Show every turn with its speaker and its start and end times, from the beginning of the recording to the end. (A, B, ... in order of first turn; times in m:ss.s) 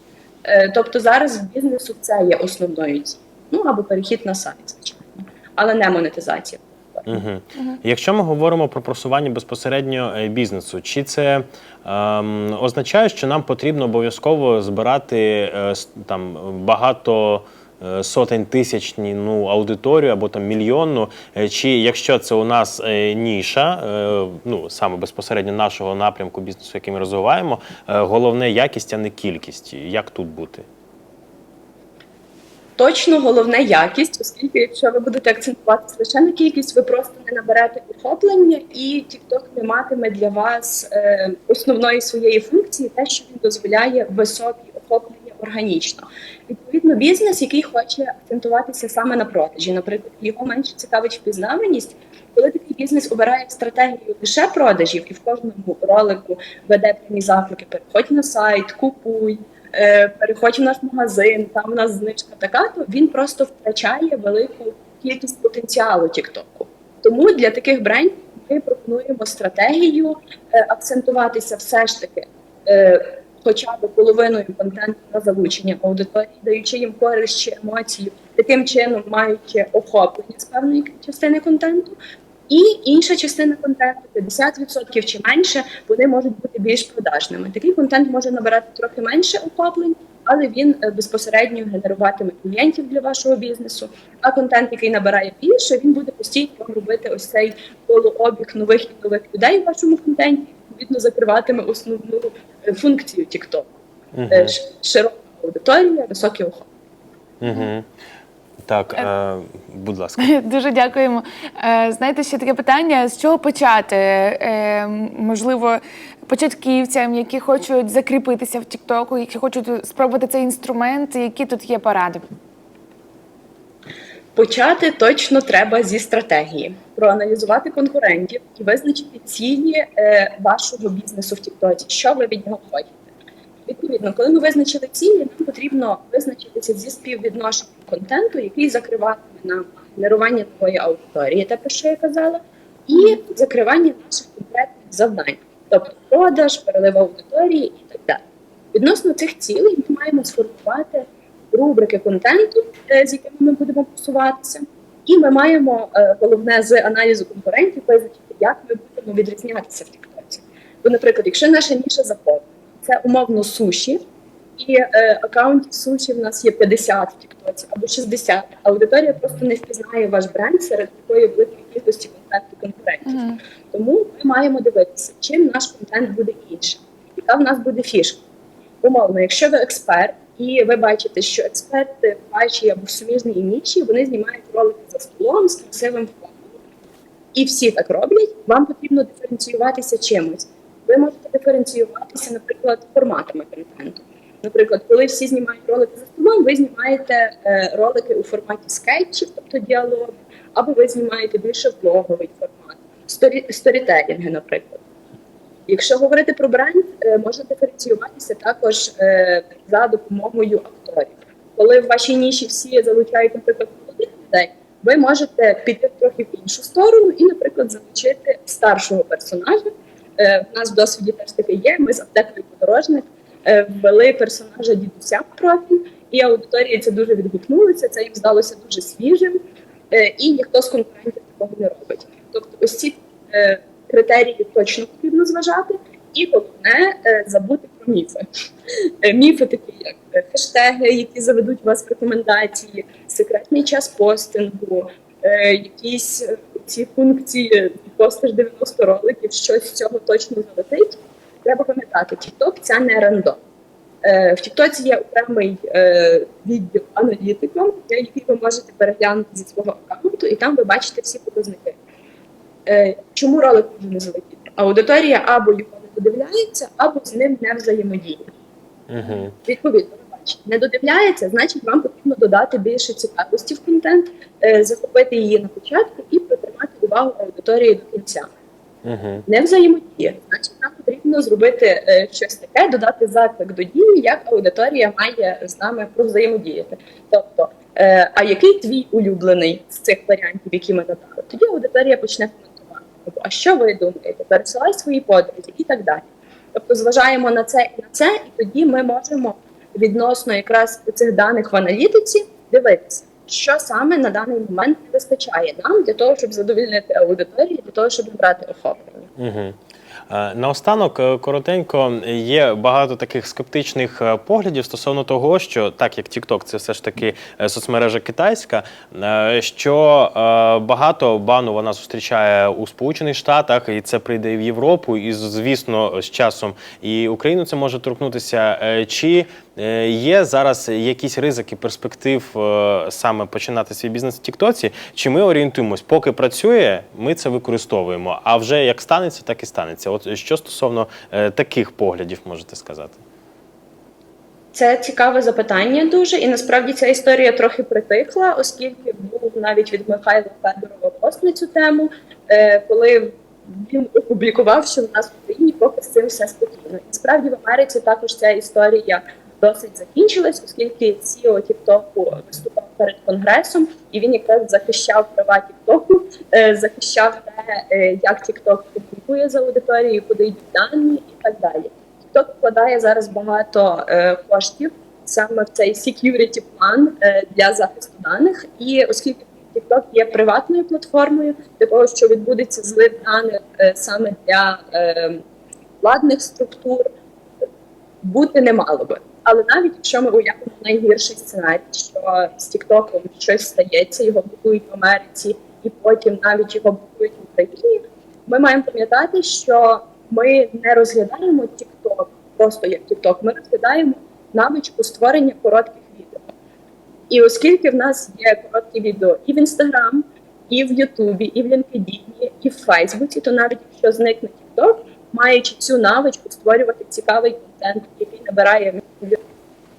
0:00.4-0:07.1 A
0:07.1-0:30.7 B
0:32.8-1:22.0 A
1:22.5-1:43.7 A
1:44.1-1:44.6 B
1:44.3-1:46.7 A
1:47.4-1:47.9 B
1:47.5-1:47.7 C
1:48.6-1:50.3 B
1:50.2-2:02.2 C
2:04.4-2:13.0 A
2:13.7-2:44.0 A
2:44.6-2:58.2 A
2:53.1-2:53.4 C
2:58.8-3:06.5 A
3:07.3-3:24.8 A
3:25.7-3:49.4 A
3:49.9-3:58.2 A
3:59.0-4:13.4 A
4:14.0-4:21.8 A
4:22.6-4:28.3 A
4:28.9-4:29.4 B
4:29.4-4:38.3 A
4:38.8-4:39.2 B
4:39.3-5:09.1 A
5:09.2-5:43.0 B
5:44.5-6:25.2 A
6:25.8-6:26.9 A
6:28.0-6:46.3 A
6:47.1-6:59.2 A